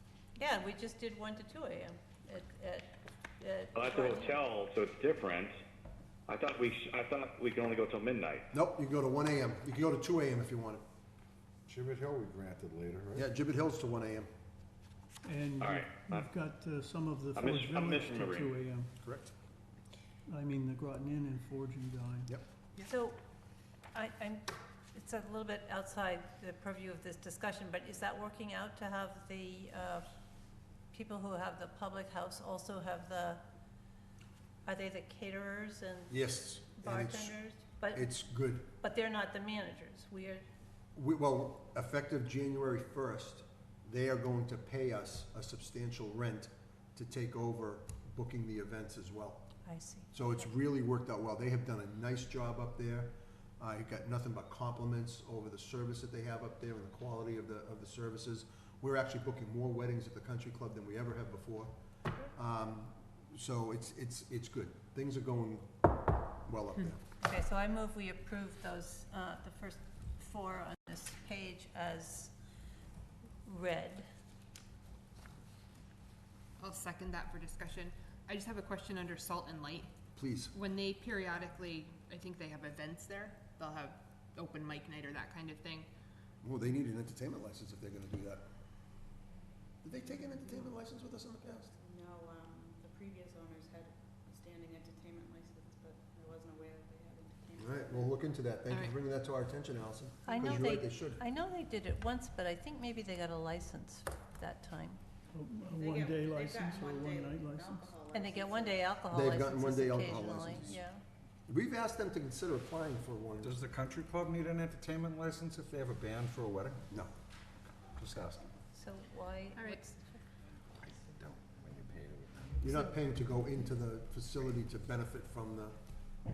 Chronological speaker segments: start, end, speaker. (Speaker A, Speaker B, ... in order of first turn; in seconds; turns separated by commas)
Speaker A: 0.4-4.4, Speaker B: 3.8-5.5, Speaker B: 6.3-8.5, Speaker C: 8.5-10.8, Speaker D: 11.7-13.3, Speaker C: 13.2-14.3, Speaker E: 15.2-18.9, Speaker B: 15.6-16.3, Speaker B: 17.4-18.5, Speaker C: 19.0-19.3, Speaker E: 20.3-22.4, Speaker A: 22.9-23.2, Speaker A: 23.9-30.0, Speaker A: 30.9-33.4, Speaker A: 34.6-40.4, Speaker C: 36.1-37.4, Speaker C: 37.9-38.7, Speaker C: 41.0-49.5, Speaker A: 49.7-50.1, Speaker C: 50.1-61.7, Speaker C: 62.3-65.7, Speaker C: 66.5-67.0, Speaker A: 67.2-72.3, Speaker A: 73.5-74.1, Speaker F: 76.6-79.9, Speaker C: 80.2-80.5, Speaker F: 80.5-85.9, Speaker C: 86.4-88.4, Speaker C: 89.8-91.7, Speaker G: 91.8-98.2, Speaker C: 97.6-101.2, Speaker F: 98.7-99.0, Speaker A: 100.3-105.0, Speaker E: 105.3-108.0, Speaker G: 105.7-108.9, Speaker A: 108.1-111.0, Speaker C: 109.1-110.8, Speaker C: 111.5-113.6, Speaker D: 113.4-116.8, Speaker D: 118.0-118.4, Speaker A: 118.7-120.2, Speaker F: 119.6-119.8, Speaker D: 120.8-122.7, Speaker C: 122.6-125.8